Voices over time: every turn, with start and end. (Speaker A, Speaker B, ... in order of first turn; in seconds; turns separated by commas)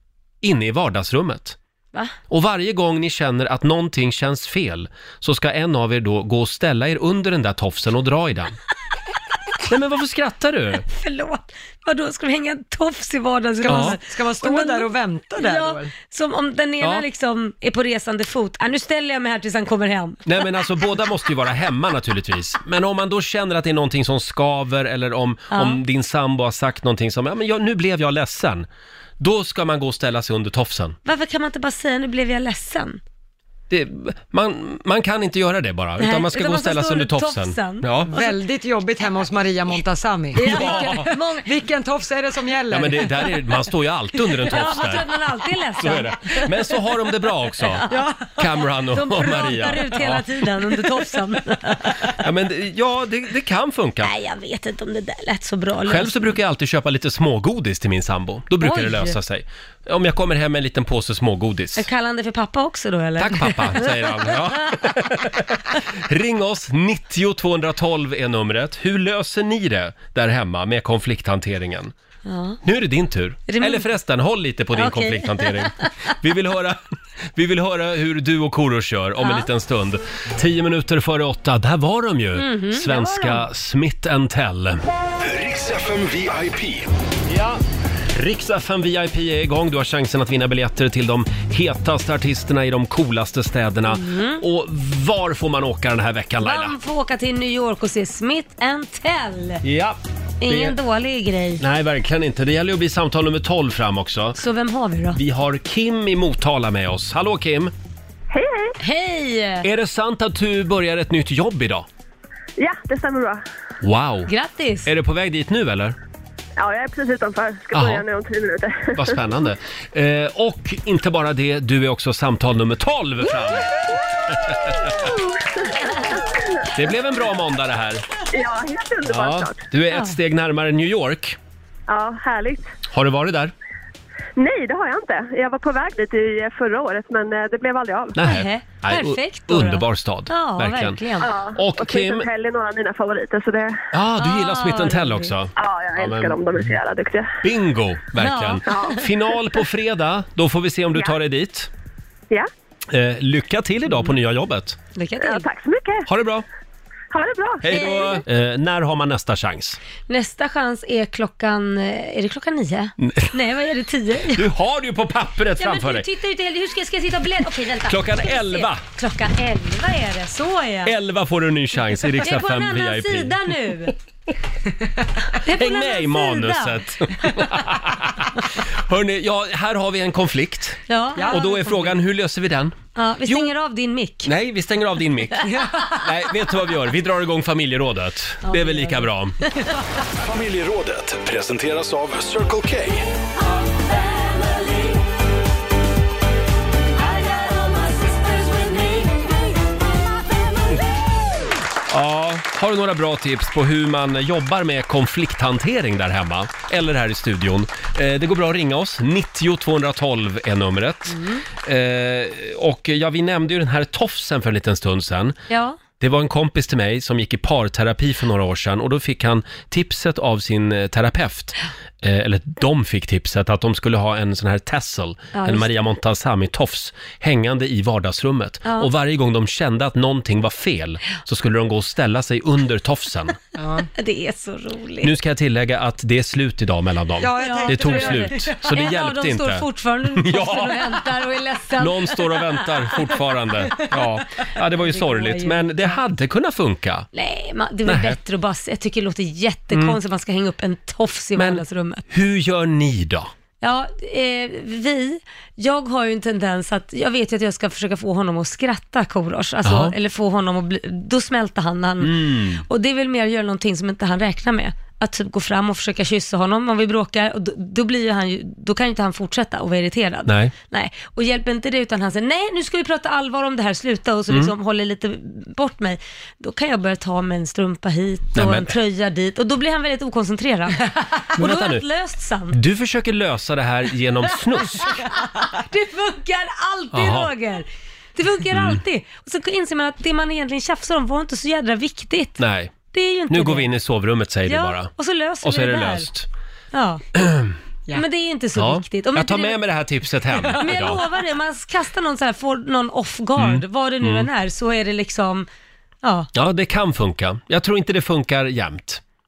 Speaker A: 0.4-1.6, Speaker A: 2.3-8.6, Speaker A: 9.7-10.8, Speaker B: 10.9-20.4, Speaker C: 13.6-15.9, Speaker A: 20.2-28.7, Speaker B: 25.5-25.8, Speaker A: 29.2-31.0, Speaker B: 31.0-33.0, Speaker A: 33.7-38.2, Speaker B: 36.0-38.2, Speaker C: 38.0-43.2, Speaker B: 40.4-41.5, Speaker A: 40.4-41.1, Speaker A: 42.7-45.1, Speaker B: 44.3-46.8, Speaker A: 45.8-47.9, Speaker B: 47.6-52.1, Speaker A: 48.4-50.2, Speaker A: 52.2-54.1, Speaker B: 54.0-56.3, Speaker A: 55.9-61.9, Speaker B: 58.6-59.1, Speaker B: 61.8-64.4, Speaker A: 63.2-71.9, Speaker B: 72.2-72.6, Speaker A: 72.6-76.8, Speaker B: 73.5-73.8, Speaker B: 74.7-75.8, Speaker A: 77.3-84.8, Speaker B: 79.2-79.5, Speaker B: 82.3-83.4, Speaker D: 85.2-86.9, Speaker A: 87.3-87.6, Speaker A: 88.1-96.7, Speaker B: 93.9-94.4, Speaker B: 96.4-99.6, Speaker A: 99.6-100.8, Speaker B: 100.4-101.6, Speaker A: 101.6-104.4, Speaker B: 104.4-105.2, Speaker A: 105.1-107.7, Speaker E: 108.3-108.7, Speaker B: 108.8-109.7, Speaker A: 109.6-111.8, Speaker E: 112.6-113.4, Speaker A: 113.8-114.3, Speaker B: 114.3-114.9, Speaker A: 114.8-116.0, Speaker E: 116.6-119.2, Speaker A: 117.7-118.0, Speaker A: 118.9-123.7, Speaker A: 124.3-125.1, Speaker E: 125.9-126.2, Speaker A: 126.7-128.0, Speaker E: 128.3-129.6, Speaker A: 129.1-131.4, Speaker E: 131.9-132.7, Speaker A: 132.9-133.5, Speaker E: 134.3-138.2, Speaker A: 138.1-141.0, Speaker B: 138.2-141.3, Speaker E: 141.2-143.8, Speaker A: 141.5-142.3, Speaker A: 143.9-146.4, Speaker B: 144.2-145.3, Speaker E: 145.6-147.3, Speaker A: 147.4-151.7, Speaker B: 148.2-148.8, Speaker E: 148.7-149.0, Speaker A: 152.9-154.8, Speaker B: 154.9-155.4, Speaker E: 155.2-156.1, Speaker A: 156.1-156.4, Speaker E: 157.1-158.2, Speaker A: 157.6-159.8, Speaker B: 157.7-158.2, Speaker B: 160.1-164.5, Speaker A: 163.0-163.3, Speaker A: 164.3-166.0, Speaker B: 165.6-170.9, Speaker A: 167.9-168.8, Speaker A: 170.8-173.4, Speaker B: 172.2-173.9, Speaker B: 175.4-176.8, Speaker A: 175.4-183.5, Speaker B: 180.9-181.4, Speaker C: 181.2-181.9, Speaker B: 182.9-184.3, Speaker A: 184.2-189.4, Speaker C: 185.4-185.9, Speaker B: 188.4-189.7, Speaker D: 190.2-193.1, Speaker B: 197.0-199.2, Speaker A: 201.9-215.4, Speaker B: 211.1-211.4, Speaker B: 215.5-215.8, Speaker A: 216.0-233.4, Speaker B: 225.3-225.7, Speaker C: 233.6-233.9, Speaker B: 234.0-235.1, Speaker A: 235.0-240.9, Speaker C: 237.2-238.5, Speaker B: 237.4-243.1, Speaker A: 241.8-247.1, Speaker B: 244.7-246.0, Speaker B: 247.1-252.0, Speaker A: 247.8-248.2, Speaker A: 249.7-250.0, Speaker A: 251.3-253.3, Speaker B: 253.6-282.6, Speaker A: 259.6-259.9, Speaker A: 262.0-262.6, Speaker A: 270.3-270.5, Speaker A: 278.3-278.7, Speaker A: 281.4-281.8, Speaker A: 282.5-285.0, Speaker B: 284.9-293.7, Speaker A: 286.9-287.3, Speaker A: 288.5-288.8, Speaker A: 292.4-292.7, Speaker A: 293.3-294.9, Speaker B: 294.4-296.1, Speaker A: 295.4-296.3, Speaker B: 296.7-297.0, Speaker A: 297.1-297.5, Speaker B: 297.9-299.6, Speaker A: 298.6-301.0, Speaker B: 300.5-305.5, Speaker A: 303.4-304.3, Speaker B: 306.0-306.3, Speaker A: 306.3-309.0